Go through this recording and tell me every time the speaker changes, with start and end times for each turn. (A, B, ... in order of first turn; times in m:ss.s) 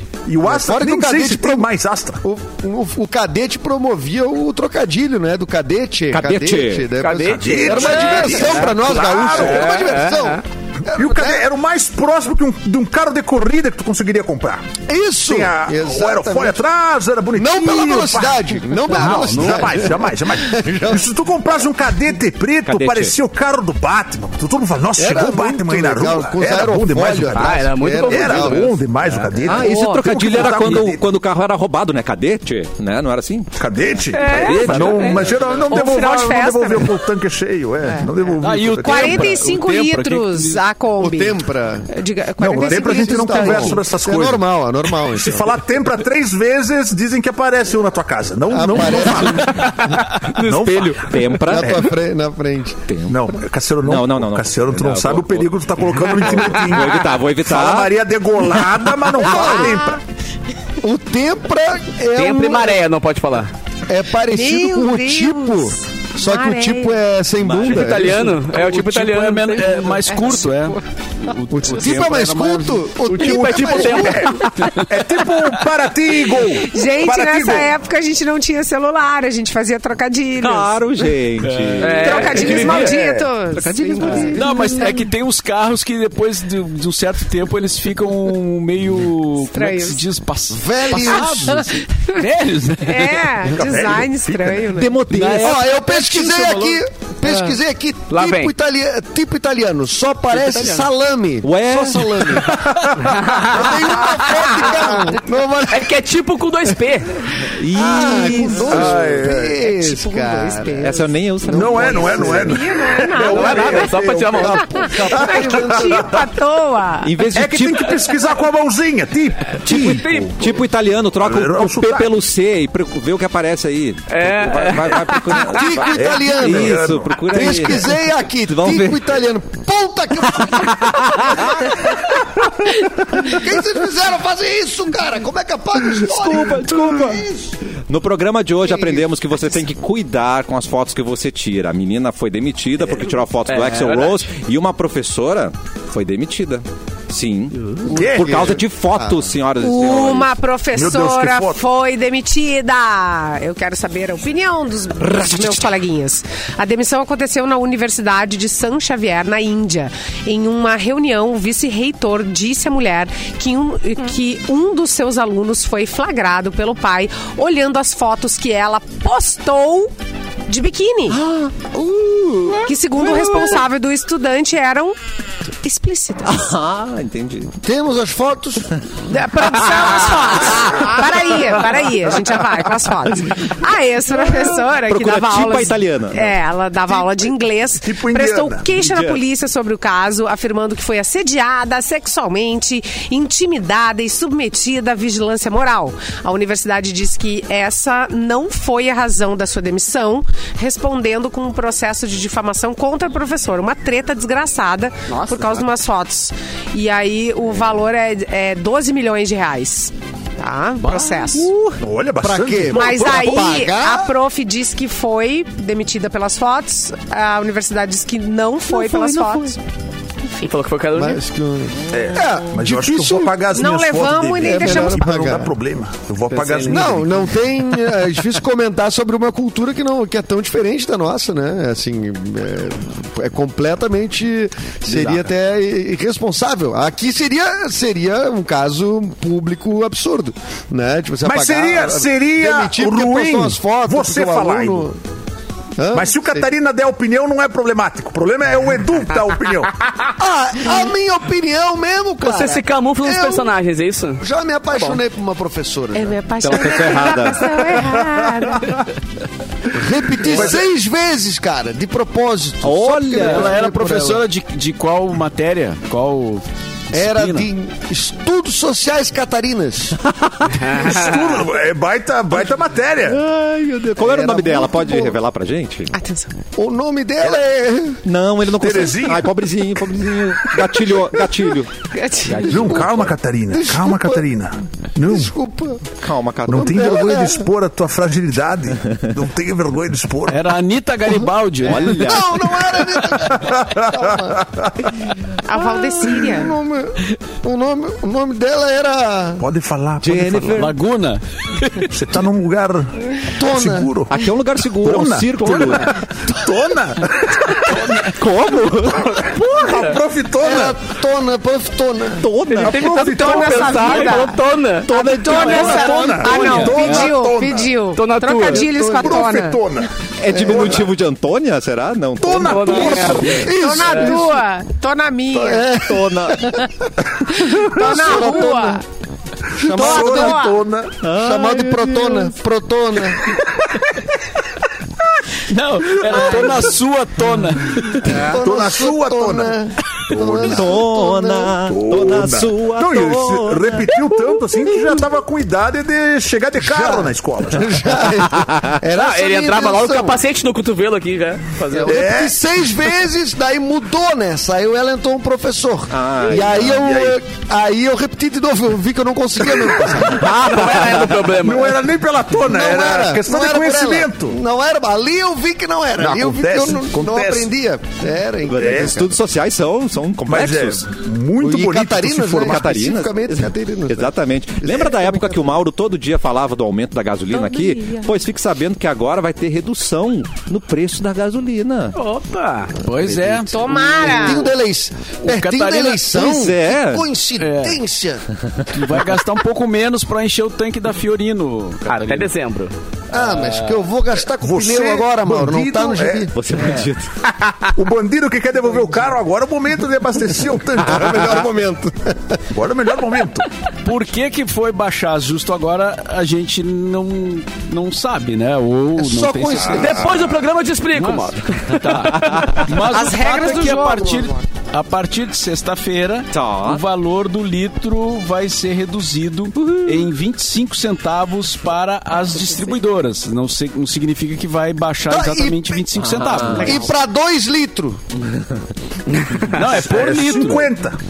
0:00.3-0:02.2 A
0:00.4-0:01.7 B
0:02.2-0:11.4 B
0:06.1-0:06.9 C
0:07.0-0:10.4 D
0:07.3-0:09.8 A
0:10.9-0:14.7 A
0:14.9-0:16.6 B
0:15.3-0:31.0 A
0:17.4-0:21.1 B
0:22.7-0:23.2 C
0:25.0-0:28.7 B
0:27.3-0:28.8 D
0:29.4-0:33.5 C
0:29.6-0:30.0 E
0:33.6-0:39.4 A
0:34.2-0:35.0 E
0:34.3-0:34.9 D
0:34.3-0:35.4 C
0:35.7-0:37.0 E
0:38.4-0:40.6 F
0:38.8-0:43.8 E
0:41.0-0:41.9 B
0:42.4-0:44.4 A
0:42.4-0:45.6 B
0:45.0-0:51.8 A
0:48.5-0:49.5 B
0:49.5-0:51.1 D
0:51.0-0:51.9 C
0:51.5-0:52.8 B
0:52.9-0:53.3 C
0:53.1-1:00.0 A
0:53.8-0:59.1 C
0:59.2-0:59.8 B
0:59.4-1:00.0 E
1:00.8-1:02.8 B
1:02.2-1:03.5 D
1:03.9-1:08.3 B
1:04.3-1:07.0 E
1:07.6-1:10.0 D
1:08.2-1:12.9 F
1:10.1-1:10.8 E
1:11.5-1:14.4 B
1:13.1-1:14.8 D
1:13.2-1:17.7 A
1:16.6-1:21.2 E
1:20.4-1:22.9 C
1:21.4-1:22.9 F
1:21.8-1:23.0 D
1:22.0-1:25.1 E
1:23.5-1:24.8 C
1:24.0-1:33.3 F
1:29.5-1:30.0 E
1:30.5-1:31.7 B
1:31.0-1:32.2 E
1:32.8-1:35.0 E
1:33.5-1:34.7 A
1:34.7-1:35.6 C
1:35.1-1:36.8 F
1:35.3-1:46.0 B
1:37.2-1:37.6 E
1:38.1-1:38.5 D
1:40.4-1:40.9 D
1:41.4-1:42.5 C
1:42.6-1:43.1 A
1:43.0-1:45.0 D
1:45.7-1:47.2 D
1:47.6-1:48.9 C
1:47.7-1:52.6 B
1:48.6-1:49.6 A
1:49.3-1:51.1 E
1:50.8-1:52.5 C
1:51.5-1:54.5 A
1:52.1-1:57.2 E
1:53.2-1:54.7 D
1:54.3-1:56.2 B
1:55.4-1:56.0 A
1:57.0-1:58.0 C
1:57.3-2:00.5 A
1:59.6-2:08.0 C
1:59.7-2:00.5 D
2:01.2-2:02.1 A
2:04.1-2:05.8 D
2:05.5-2:11.7 B
2:05.9-2:07.8 A
2:08.5-2:09.1 C
2:10.4-2:12.1 C
2:13.2-2:17.6 B
2:16.0-2:17.3 C
2:17.9-2:30.4 C
2:18.7-2:19.1 B
2:23.5-2:24.2 D
2:27.9-2:29.3 B
2:27.9-2:28.7 A
2:29.6-2:49.9 E
2:30.7-2:31.6 A
2:35.0-2:35.6 C
2:50.5-2:51.2 E
2:51.1-2:53.6 C
2:52.6-2:55.0 E
2:55.6-2:56.5 E
2:56.3-2:57.5 C
2:57.6-2:58.7 B
2:59.1-3:31.5 E
2:59.7-3:01.2 C
3:04.8-3:06.3 C
3:07.8-3:08.7 A
3:08.8-3:09.2 C
3:25.1-3:25.5 D
3:31.2-3:31.8 C
3:31.8-3:33.4 A
3:32.2-3:34.1 B
3:32.7-3:39.6 E
3:38.9-3:39.3 C
3:40.4-3:41.2 D
3:41.0-3:43.3 B
3:41.9-3:47.1 A
3:43.5-3:45.1 E
3:44.4-3:45.5 B
3:46.3-3:47.0 D
3:46.7-4:05.0 B
3:54.9-3:55.2 F
4:01.2-4:04.9 A
4:05.8-4:06.5 B
4:05.9-4:09.8 A
4:10.2-4:13.5 B
4:12.2-4:14.2 D
4:14.2-4:16.6 B
4:15.9-4:18.8 E
4:16.4-4:17.7 C
4:19.7-4:24.2 B
4:20.2-4:20.6 A
4:22.6-4:23.6 C
4:23.1-4:27.5 F
4:26.9-4:30.0 B
4:30.1-4:30.7 C
4:30.6-4:31.2 D
4:30.7-4:33.2 A
4:33.1-4:35.9 C
4:34.0-4:35.2 B
4:35.9-4:36.3 E
4:36.6-4:38.0 B
4:38.0-4:41.7 C
4:38.6-4:39.3 A
4:41.9-4:42.6 E
4:42.4-4:42.9 B
4:42.5-4:45.3 A
4:43.5-4:44.2 B
4:45.0-4:45.8 B
4:46.0-4:46.9 C
4:46.5-4:47.5 B
4:46.5-4:50.4 A
4:50.3-4:52.1 F
4:51.6-4:52.5 C
4:51.8-4:54.5 B
4:53.3-4:54.7 A
4:55.4-4:56.6 E
4:55.8-4:59.4 B
4:59.4-5:00.6 A
5:00.0-5:00.8 C
5:00.5-5:01.9 F
5:01.9-5:02.9 A
5:03.4-5:03.9 B
5:03.5-5:07.8 A
5:04.1-5:06.0 C
5:07.7-5:08.1 F
5:08.0-5:09.4 C
5:09.0-5:10.8 A
5:10.4-5:12.3 B
5:12.2-5:13.6 C
5:12.5-5:16.4 D
5:12.6-5:14.2 A
5:12.8-5:19.6 E
5:14.9-5:17.1 C
5:14.9-5:15.6 B
5:15.3-5:16.7 F
5:15.6-5:17.8 A
5:17.9-5:18.7 D
5:18.5-5:19.2 B
5:19.0-5:20.9 A
5:20.2-5:23.3 C
5:20.3-5:20.8 B
5:22.2-5:23.4 A
5:22.4-5:24.2 D
5:22.8-5:24.4 B
5:23.4-5:25.8 E
5:25.3-5:26.7 B
5:25.8-5:26.4 C
5:27.3-5:28.8 E
5:27.4-5:28.8 B
5:29.6-5:30.5 B
5:29.7-5:31.0 A
5:29.7-5:30.6 E
5:31.0-5:32.3 C
5:31.0-5:33.3 B
5:35.5-5:38.1 F
5:38.0-5:41.6 B
5:38.3-5:39.6 A
5:40.1-5:40.8 A
5:40.4-5:44.4 C
5:41.6-5:47.8 A
5:46.6-5:50.2 B
5:48.2-5:48.8 C
5:48.9-5:52.0 D
5:51.7-6:00.3 B
5:51.9-5:52.4 A
5:55.9-5:56.9 C
5:56.7-5:57.1 A
6:00.1-6:01.3 C
6:00.2-6:01.8 D
6:01.4-6:04.4 A
6:02.5-6:09.2 B
6:06.0-6:07.5 A
6:08.5-6:10.9 C
6:08.6-6:09.0 A
6:10.3-6:12.8 A
6:11.4-6:15.6 B
6:12.4-6:22.0 C
6:17.3-6:18.1 E
6:22.0-6:22.7 D
6:22.8-6:23.5 F
6:23.0-6:28.2 B
6:23.5-6:24.5 E
6:25.2-6:26.1 F
6:26.1-6:27.0 C
6:27.4-6:27.8 F
6:28.7-6:32.3 F
6:31.9-6:32.7 D
6:33.1-6:36.3 B
6:33.2-6:33.8 F
6:34.4-6:36.3 A
6:36.3-6:37.1 C
6:37.8-6:41.4 A
6:40.7-6:42.4 B
6:42.5-6:43.5 A
6:43.8-6:50.1 F
6:49.0-6:50.3 B
6:49.7-6:52.5 D
6:51.0-7:06.9 F
6:52.1-6:53.1 C
6:52.8-6:54.4 E
6:56.3-6:56.8 C
6:59.6-7:00.1 C
7:05.1-7:05.8 B
7:06.0-7:06.8 C
7:06.5-7:08.1 B
7:08.2-7:08.6 C
7:09.1-7:09.5 D
7:09.5-7:10.7 F
7:09.6-7:11.0 A